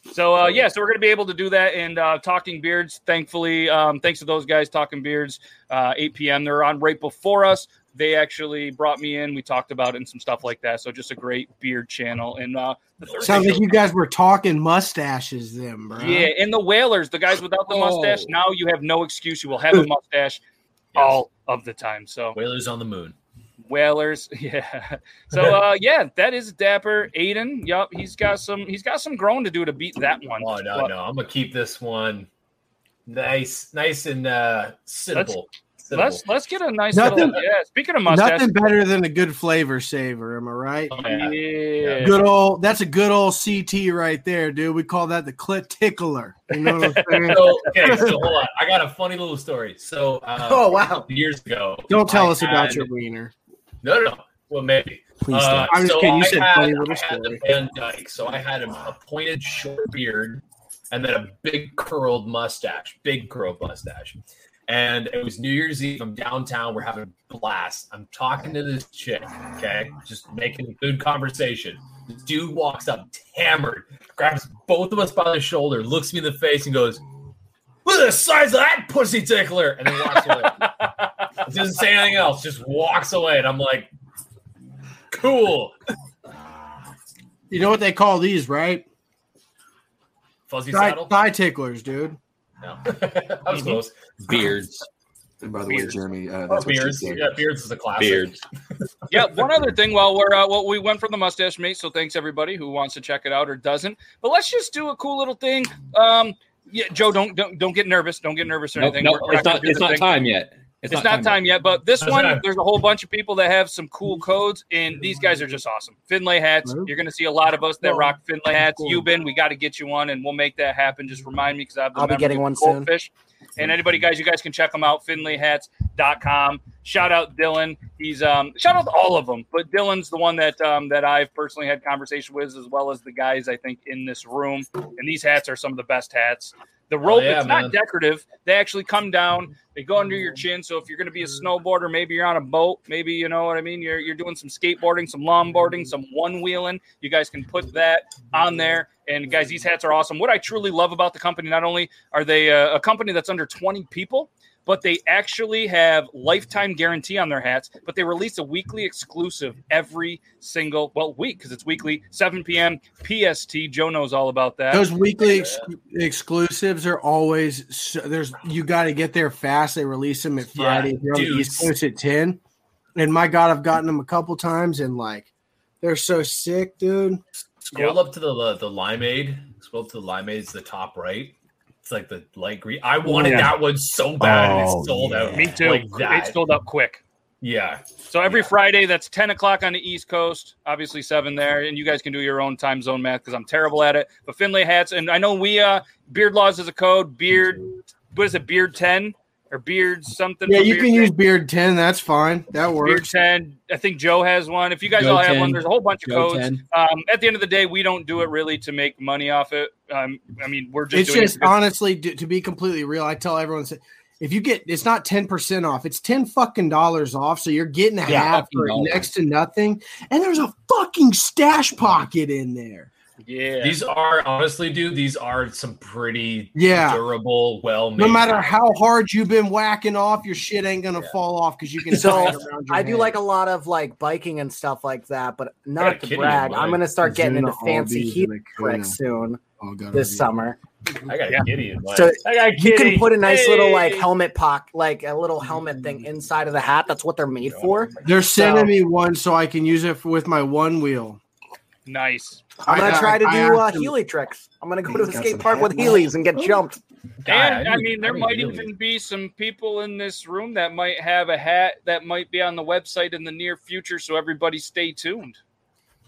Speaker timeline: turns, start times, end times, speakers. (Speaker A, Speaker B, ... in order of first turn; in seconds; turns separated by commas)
Speaker A: 0.1-13.8, Speaker B: 13.1-13.6, Speaker C: 13.2-16.3, Speaker A: 16.0-20.4, Speaker D: 17.7-18.4, Speaker B: 20.9-21.2, Speaker A: 20.9-22.4, Speaker B: 22.4-23.2, Speaker A: 23.7-30.9, Speaker B: 30.4-32.3, Speaker B: 33.1-36.2, Speaker A: 35.1-38.5, Speaker C: 36.9-37.4, Speaker B: 37.0-37.4, Speaker C: 38.1-40.9, Speaker B: 40.9-42.1, Speaker A: 41.0-42.3, Speaker C: 42.0-48.2, Speaker A: 46.6-47.4, Speaker B: 47.3-52.9, Speaker E: 50.4-51.1, Speaker C: 51.9-53.3, Speaker B: 53.8-77.0, Speaker E: 55.3-55.7, Speaker C: 55.3-57.4, Speaker B: 77.8-80.7, Speaker A: 80.5-81.1, Speaker B: 81.4-83.9, Speaker B: 85.1-85.8, Speaker C: 87.5-88.8, Speaker B: 90.5-91.2, Speaker C: 90.7-92.2, Speaker B: 92.6-94.0, Speaker D: 94.2-94.9, Speaker F: 95.4-97.5, Speaker A: 95.7-96.0, Speaker B: 96.5-98.3, Speaker D: 98.0-98.4, Speaker A: 99.1-110.1, Speaker D: 108.8-111.4, Speaker A: 110.9-164.9, Speaker B: 112.0-112.4, Speaker C: 116.7-116.9, Speaker C: 117.8-118.1, Speaker C: 118.6-119.0, Speaker E: 122.0-122.9, Speaker B: 137.0-137.8, Speaker C: 164.7-172.4, Speaker B: 170.6-171.7, Speaker C: 173.0-175.3, Speaker C: 175.8-177.2, Speaker B: 177.6-186.4, Speaker A: 177.7-178.0, Speaker C: 183.1-183.5, Speaker C: 184.2-185.1, Speaker A: 185.3-187.0, Speaker B: 187.4-188.5, Speaker A: 188.1-201.1, Speaker C: 200.5-203.1, Speaker A: 202.8-211.6, Speaker D: 205.0-206.6, Speaker C: 210.9-222.9, Speaker D: 218.1-219.1, Speaker A: 223.2-223.8, Speaker B: 223.6-228.5, Speaker C: 226.6-227.0, Speaker C: 228.0-233.2, Speaker E: 231.9-239.4, Speaker B: 235.8-236.8, Speaker C: 237.0-239.0, Speaker C: 239.6-240.3, Speaker E: 239.9-240.6, Speaker B: 241.1-243.2, Speaker E: 241.9-248.7, Speaker A: 243.2-244.1, Speaker B: 247.5-248.2, Speaker C: 248.0-251.2, Speaker A: 251.9-252.4, Speaker E: 252.6-256.8, Speaker C: 252.7-253.9, Speaker B: 257.2-258.7, Speaker A: 257.3-265.4